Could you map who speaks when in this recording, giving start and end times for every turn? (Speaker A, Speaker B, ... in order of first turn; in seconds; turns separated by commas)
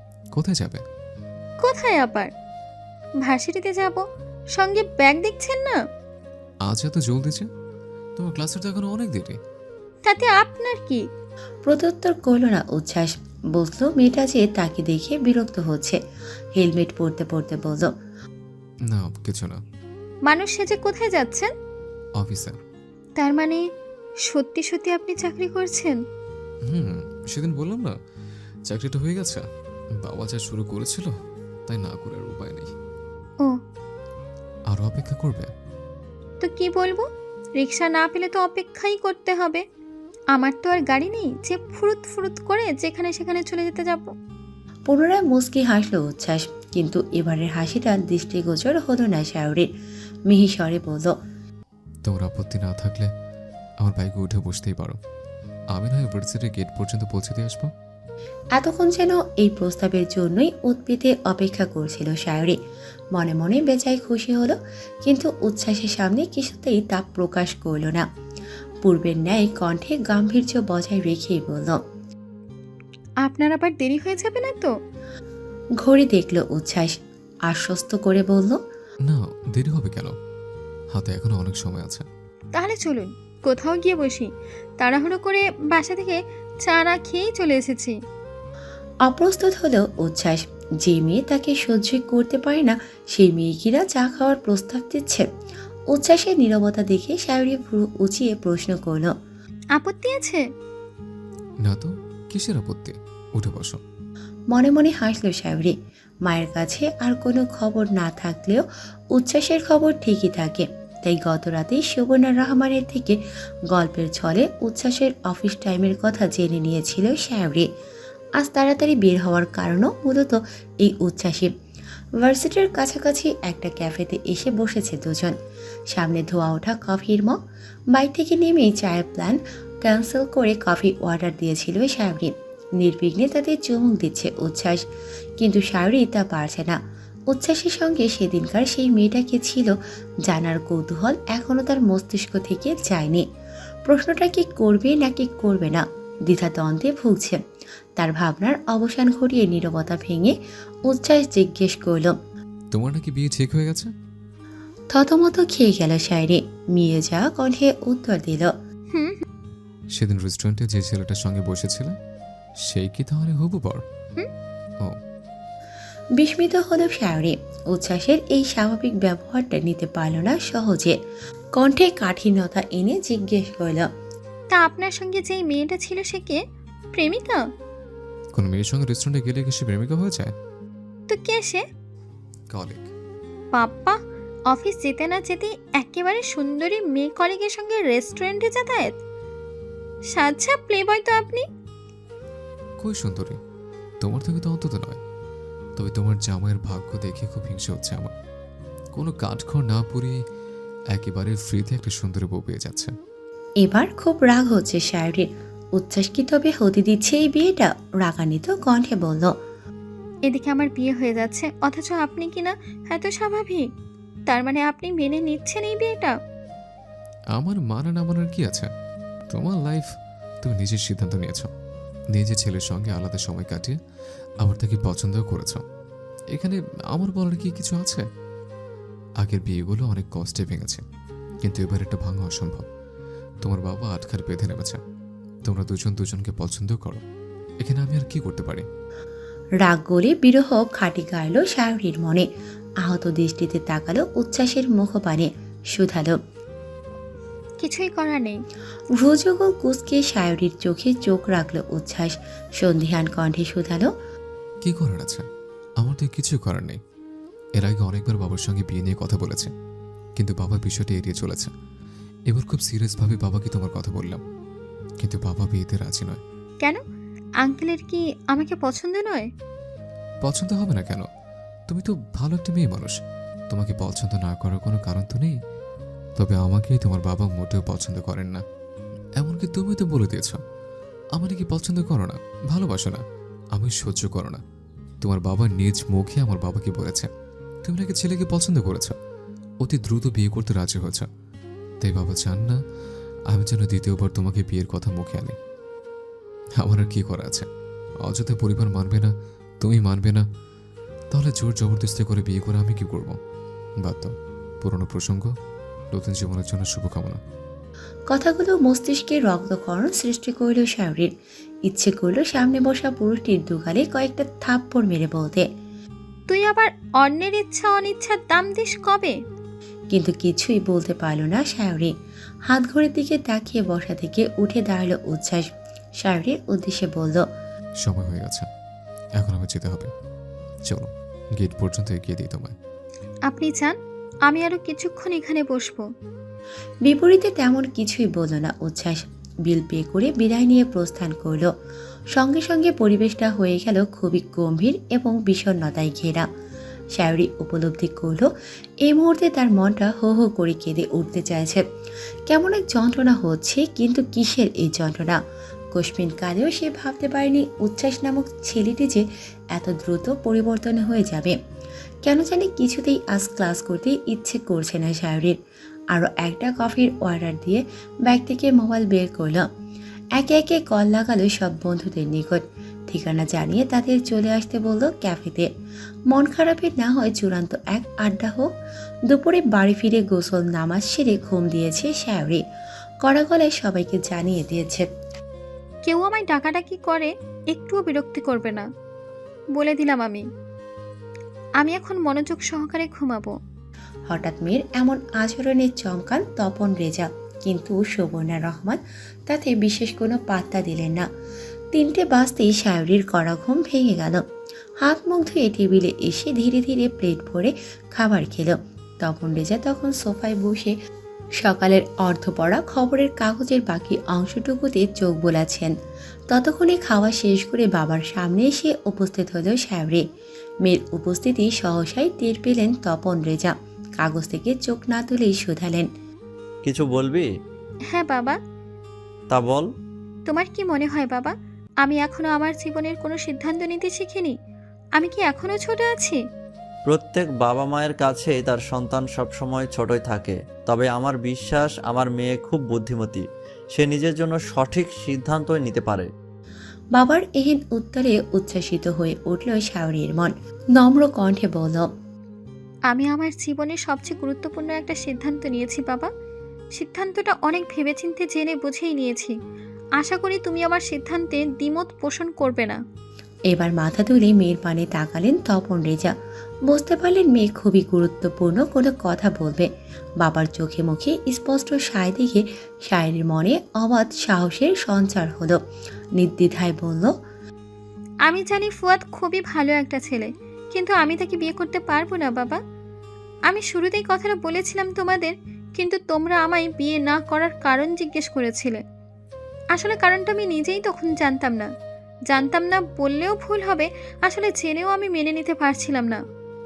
Speaker A: 0.4-0.8, Speaker B: 1.6-2.3, Speaker B: 3.2-4.0, Speaker B: 4.6-5.8, Speaker A: 6.6-7.5, Speaker A: 8.2-9.4, Speaker B: 10.1-11.0, Speaker C: 11.7-16.0, Speaker C: 16.6-17.9, Speaker A: 18.9-19.6, Speaker B: 20.3-21.5, Speaker A: 22.2-22.6, Speaker B: 23.2-23.6, Speaker B: 24.3-25.9, Speaker A: 26.7-28.0, Speaker A: 28.7-29.4, Speaker A: 30.0-31.1, Speaker A: 31.7-32.7, Speaker A: 34.7-35.5, Speaker B: 36.4-37.1, Speaker B: 37.6-39.6, Speaker B: 40.4-44.1, Speaker C: 44.9-49.7, Speaker C: 50.3-51.1, Speaker A: 52.0-53.1, Speaker A: 53.8-55.0, Speaker A: 55.7-57.7, Speaker C: 58.5-62.6, Speaker C: 63.2-68.0, Speaker C: 68.8-71.8, Speaker B: 73.2-74.7, Speaker C: 75.8-77.0, Speaker C: 77.5-78.6, Speaker A: 79.1-80.1, Speaker A: 80.9-82.0, Speaker B: 82.6-84.3, Speaker B: 84.8-88.0, Speaker C: 89.1-95.3, Speaker C: 95.9-99.1, Speaker B: 99.8-100.4, Speaker A: 101.6-103.8, Speaker C: 104.5-113.2, Speaker C: 113.7-117.7, Speaker C: 118.4-121.5, Speaker C: 122.2-125.3, Speaker C: 125.9-127.4, Speaker C: 127.9-134.8, Speaker C: 135.4-136.8, Speaker C: 137.3-139.7, Speaker C: 140.2-143.2, Speaker C: 143.9-147.4, Speaker C: 148.0-150.3, Speaker C: 150.9-152.1, Speaker A: 152.7-153.9, Speaker C: 154.9-158.5, Speaker B: 158.9-159.2, Speaker A: 159.9-162.0, Speaker A: 162.7-163.8, Speaker C: 166.2-170.9, Speaker C: 171.6-173.9, Speaker B: 174.5-176.4, Speaker B: 176.9-177.4, Speaker A: 178.4-180.3, Speaker B: 181.1-181.6, Speaker A: 182.5-182.9, Speaker B: 183.5-184.0, Speaker B: 184.5-188.9, Speaker B: 190.1-191.4, Speaker A: 192.8-193.4, Speaker A: 194.0-195.0, Speaker A: 195.8-198.1, Speaker A: 198.9-200.2, Speaker A: 200.9-202.9, Speaker C: 203.6-209.3, Speaker B: 210.3-213.7, Speaker B: 214.3-216.2, Speaker A: 217.3-218.7, Speaker A: 219.3-219.9, Speaker A: 220.4-221.5, Speaker A: 222.1-223.8, Speaker A: 224.4-225.6, Speaker A: 226.3-228.0, Speaker A: 229.2-230.8, Speaker A: 231.4-232.7, Speaker A: 233.4-234.8, Speaker A: 235.5-237.0, Speaker A: 237.6-238.7, Speaker C: 239.6-242.3, Speaker C: 242.8-246.2, Speaker B: 247.6-248.4, Speaker C: 249.0-253.9, Speaker A: 254.6-255.2, Speaker A: 255.8-256.8, Speaker A: 257.6-259.5, Speaker A: 260.2-261.5, Speaker A: 262.3-264.2, Speaker A: 265.0-266.2, Speaker B: 267.4-269.3, Speaker A: 270.2-271.1, Speaker A: 271.7-273.0, Speaker A: 273.5-275.4, Speaker A: 276.2-278.4, Speaker A: 279.2-280.4, Speaker A: 281.2-283.0, Speaker A: 283.6-284.4, Speaker A: 285.0-287.1, Speaker A: 287.6-289.0, Speaker A: 289.6-291.1, Speaker A: 291.8-292.6, Speaker A: 293.3-295.4, Speaker A: 296.6-297.5, Speaker A: 298.1-300.2, Speaker A: 301.1-303.2, Speaker A: 303.8-304.1, Speaker A: 304.6-305.3, Speaker A: 305.9-307.2, Speaker C: 308.1-311.1, Speaker C: 311.7-315.5, Speaker B: 316.3-319.2, Speaker C: 319.9-321.9, Speaker C: 322.5-325.5, Speaker C: 326.0-327.2, Speaker A: 327.8-328.5, Speaker A: 329.2-329.9, Speaker A: 330.7-332.6, Speaker B: 333.3-333.7, Speaker B: 334.3-335.9, Speaker C: 336.9-341.5, Speaker C: 342.1-346.3, Speaker C: 346.9-348.3, Speaker C: 348.9-351.6, Speaker C: 352.3-355.2, Speaker C: 355.8-361.4, Speaker C: 362.1-365.4, Speaker C: 365.9-369.4, Speaker C: 370.2-375.5, Speaker C: 376.1-378.5, Speaker C: 379.1-382.4, Speaker C: 383.1-384.9, Speaker B: 385.9-388.7, Speaker B: 389.6-390.3, Speaker B: 391.6-393.4, Speaker C: 394.1-401.1, Speaker C: 401.7-404.2, Speaker C: 404.8-410.8, Speaker C: 411.4-415.7, Speaker C: 416.3-420.0, Speaker C: 420.6-425.9, Speaker D: 426.6-427.3, Speaker B: 427.9-428.4, Speaker D: 429.3-429.7, Speaker B: 430.3-434.4, Speaker B: 435.0-436.2, Speaker D: 436.9-446.1, Speaker C: 446.9-451.9, Speaker B: 452.9-456.1, Speaker B: 456.8-459.3, Speaker B: 460.0-462.8, Speaker C: 463.5-466.1, Speaker C: 466.7-469.7, Speaker C: 470.2-475.6, Speaker C: 476.2-477.1, Speaker B: 478.3-482.6, Speaker B: 483.5-488.8, Speaker B: 489.8-491.7, Speaker B: 492.3-496.2